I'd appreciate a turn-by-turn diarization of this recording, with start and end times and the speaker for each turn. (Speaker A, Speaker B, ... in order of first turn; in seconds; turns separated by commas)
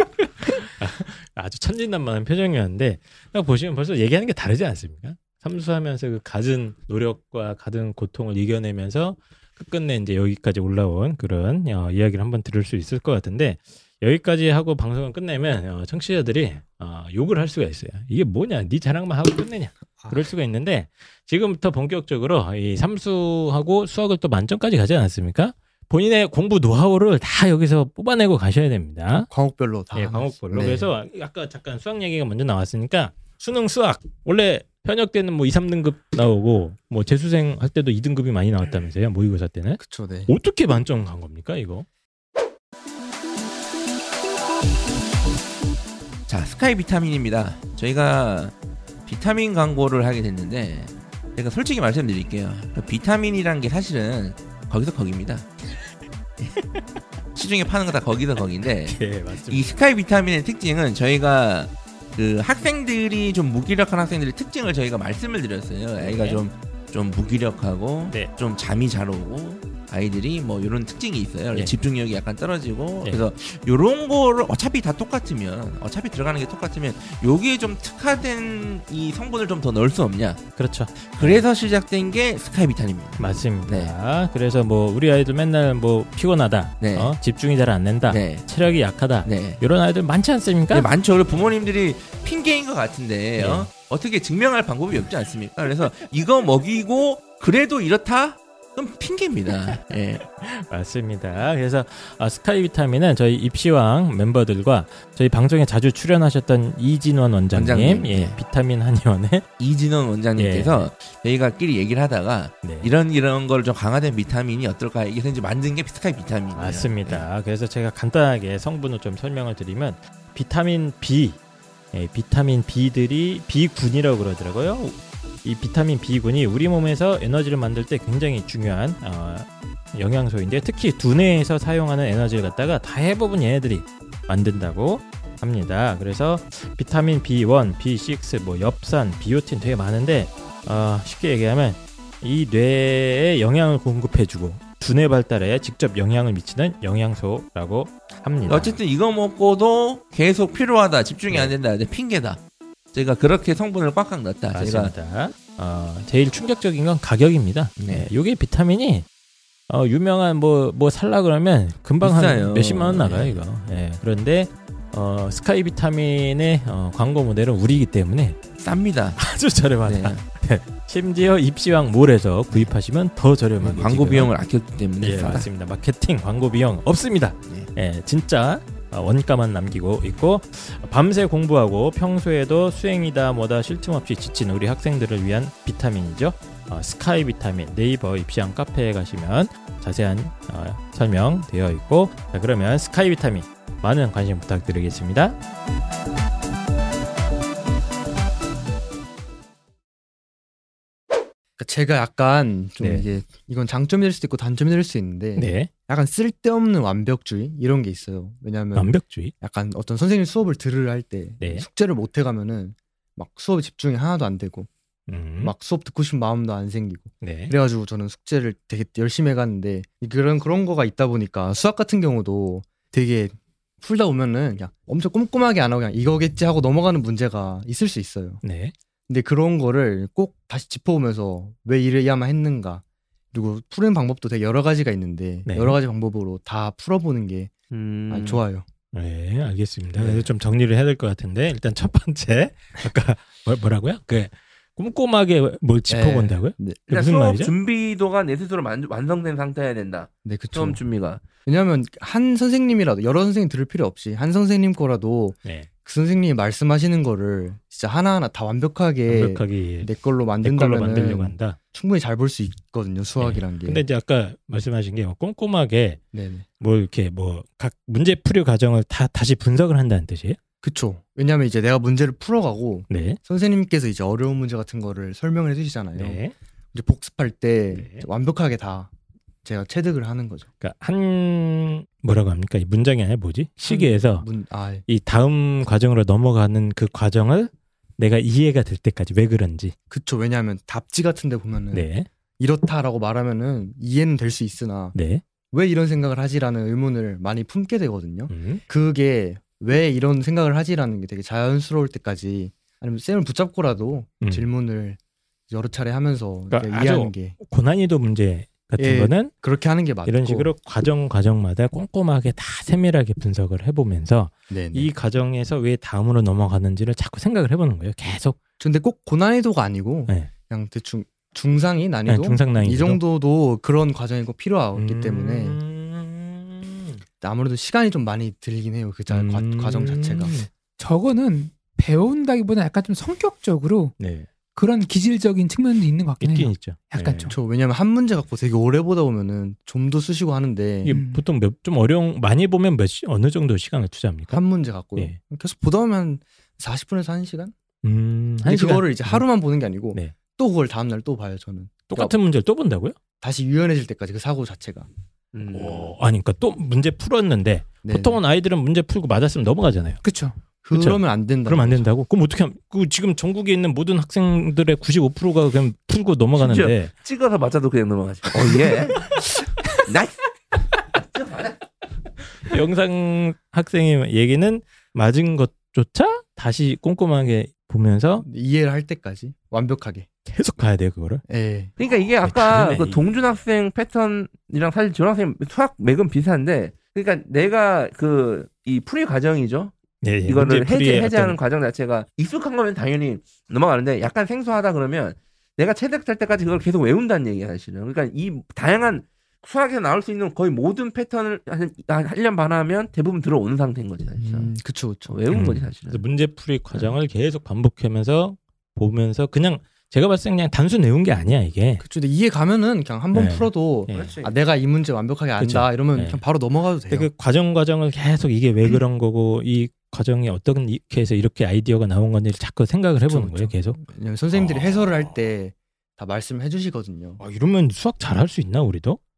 Speaker A: 0.6-29.3, Speaker B: 20.0-20.3, Speaker B: 29.3-30.9, Speaker A: 29.9-41.9, Speaker B: 39.8-40.3, Speaker C: 46.3-48.5, Speaker C: 49.1-55.5, Speaker A: 56.5-56.8, Speaker C: 57.4-80.4, Speaker A: 58.8-59.8, Speaker A: 66.0-66.4, Speaker A: 80.6-81.5, Speaker C: 81.0-83.9, Speaker A: 83.2-90.9, Speaker C: 86.8-87.1, Speaker C: 88.1-88.5, Speaker C: 89.2-89.6, Speaker C: 90.7-100.2, Speaker A: 93.4-93.7, Speaker A: 100.4-109.5, Speaker C: 107.5-108.4, Speaker C: 109.6-117.2, Speaker A: 110.4-110.9, Speaker A: 112.6-112.9, Speaker A: 116.5-121.4, Speaker A: 121.9-148.8, Speaker C: 148.5-152.4, Speaker C: 152.9-154.9, Speaker A: 154.5-159.1, Speaker C: 157.8-158.1, Speaker A: 159.7-168.4, Speaker C: 162.0-163.4, Speaker C: 168.6-169.2, Speaker A: 169.2-174.3, Speaker C: 169.8-170.2, Speaker C: 173.6-175.5, Speaker A: 175.0-195.4, Speaker B: 201.6-214.7, Speaker A: 202.8-203.1, Speaker A: 205.4-205.7, Speaker A: 208.8-209.3, Speaker A: 211.4-211.7, Speaker A: 215.1-215.5, Speaker B: 215.4-228.4, Speaker A: 217.2-217.5, Speaker A: 228.4-228.7, Speaker B: 229.1-237.5, Speaker A: 235.5-235.8, Speaker C: 237.7-238.4, Speaker B: 238.1-238.7, Speaker A: 238.9-247.5, Speaker B: 245.9-246.8, Speaker C: 246.9-251.2, Speaker B: 250.2-250.8, Speaker B: 251.5-263.8, Speaker A: 259.1-259.9, Speaker A: 260.4-261.6, Speaker A: 263.2-266.0, Speaker B: 266.1-266.5, Speaker A: 266.6-270.4, Speaker B: 270.6-276.2, Speaker A: 272.9-273.2, Speaker A: 276.0-276.3, Speaker B: 276.7-278.9, Speaker A: 277.7-278.1, Speaker B: 279.4-280.5, Speaker A: 280.6-284.3, Speaker B: 283.7-284.9, Speaker A: 284.9-289.7, Speaker B: 289.9-291.9, Speaker A: 291.7-292.1, Speaker B: 292.4-294.9, Speaker A: 294.9-295.2, Speaker B: 295.5-305.0, Speaker A: 298.3-298.6, Speaker B: 305.5-307.4, Speaker A: 306.5-309.3, Speaker B: 308.8-310.5, Speaker A: 310.1-318.4, Speaker B: 314.5-314.9, Speaker B: 318.6-325.6, Speaker A: 322.1-323.0, Speaker A: 324.8-327.0, Speaker B: 327.2-330.4, Speaker A: 329.1-330.5, Speaker D: 330.8-333.9, Speaker A: 334.0-334.3, Speaker D: 334.6-337.3, Speaker A: 336.2-337.3, Speaker B: 337.3-340.9, Speaker A: 340.8-344.4, Speaker D: 340.9-341.2, Speaker B: 344.3-347.5, Speaker A: 347.8-349.3, Speaker B: 348.4-352.1, Speaker A: 351.9-353.0, Speaker B: 353.2-354.9, Speaker C: 355.3-355.9, Speaker A: 355.5-360.0, Speaker B: 357.8-358.2, Speaker D: 360.0-360.4, Speaker B: 360.6-361.9, Speaker A: 360.7-366.9, Speaker C: 366.4-370.2, Speaker C: 370.9-371.6, Speaker A: 372.4-378.3, Speaker B: 378.2-380.1, Speaker A: 380.3-381.2, Speaker B: 381.3-381.7, Speaker C: 381.8-389.7, Speaker A: 382.2-383.0, Speaker A: 390.0-391.4, Speaker C: 390.3-404.5, Speaker B: 404.2-405.2, Speaker C: 405.1-406.0, Speaker A: 405.3-411.8, Speaker B: 411.8-417.1, Speaker A: 413.1-414.1, Speaker C: 413.9-414.4, Speaker A: 415.4-416.2, Speaker A: 416.9-423.8, Speaker B: 423.1-427.2, Speaker A: 424.3-425.2, Speaker A: 427.2-429.0